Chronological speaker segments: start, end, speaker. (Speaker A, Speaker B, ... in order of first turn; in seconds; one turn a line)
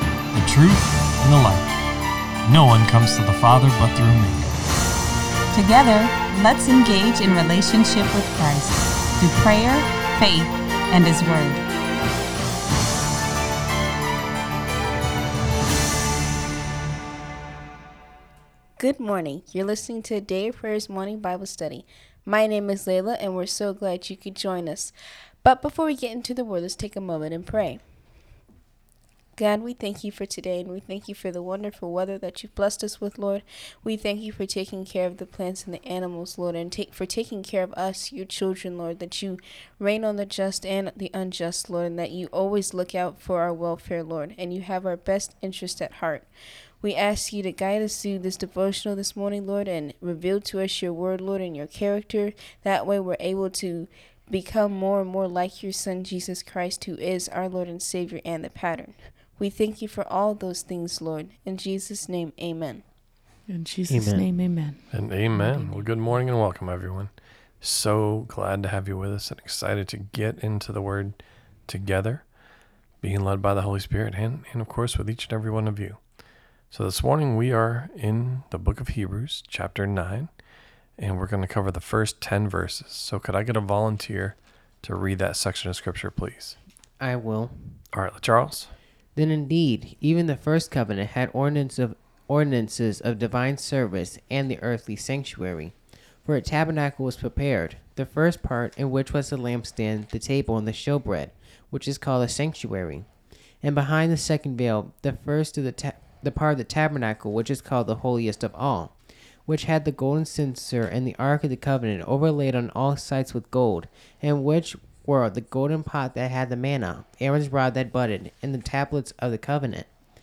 Speaker A: 0.3-1.8
Speaker A: 2.4-4.5
Speaker B: 5.5-11.6
Speaker C: 18.8-27.8
Speaker C: 29.4-46.3
Speaker C: 46.8-62.8
Speaker D: 63.5-65.8
Speaker E: 63.9-64.3
Speaker A: 64.9-67.1
Speaker A: 67.6-72.3
Speaker A: 73.0-76.0
Speaker A: 76.7-80.3
Speaker A: 81.0-86.6
Speaker E: 87.0-87.8
Speaker A: 87.9-88.7
Speaker E: 89.1-103.1
Speaker E: 103.6-108.9
Speaker E: 109.5-119.9